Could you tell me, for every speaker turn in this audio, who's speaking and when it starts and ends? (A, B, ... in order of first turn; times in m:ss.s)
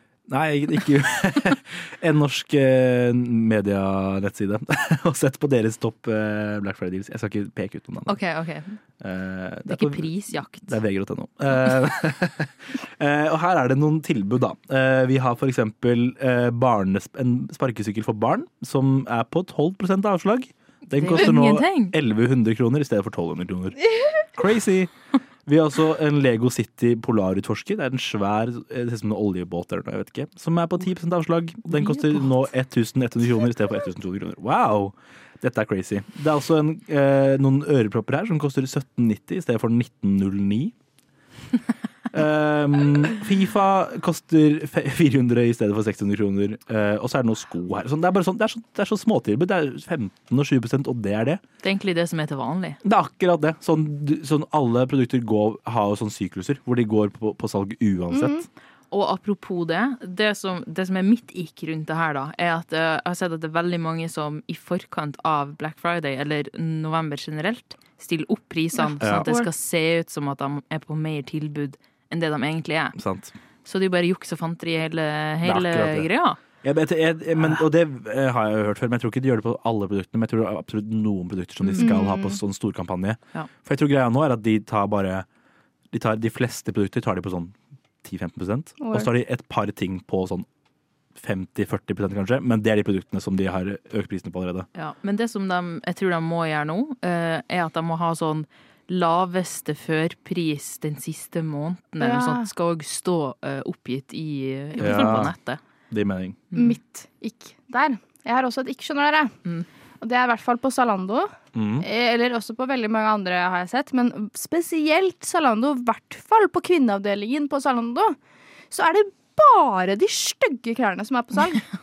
0:00.3-0:08.2 A
0:08.1-0:08.8 B
0:09.0-0:24.9 A
0:09.7-0:10.7 B
0:20.9-0:21.9 B
0:25.4-0:40.7 A
0:31.7-0:32.1 B
0:42.1-0:51.4 A
0:51.6-0:52.8 B
0:52.8-0:58.4 A
0:58.1-0:58.4 C
0:58.9-1:13.0 B
1:08.8-1:09.4 C
1:09.0-1:09.3 A
1:13.0-1:13.3 A
1:13.6-1:16.4 B
1:15.4-1:16.1 A
1:16.6-1:25.2 A
1:21.6-1:21.9 B
1:21.8-1:22.4 C
1:25.9-1:30.4 A
1:28.8-1:29.1 C
1:31.2-1:34.7 A
1:34.7-1:45.6 B
1:42.0-1:42.5 C
1:44.8-1:45.3 A
1:45.9-1:46.4 A
1:46.5-1:46.8 B
1:46.5-1:49.4 C
1:50.0-1:58.2 C
1:51.5-1:51.8 A
1:58.7-2:01.6 C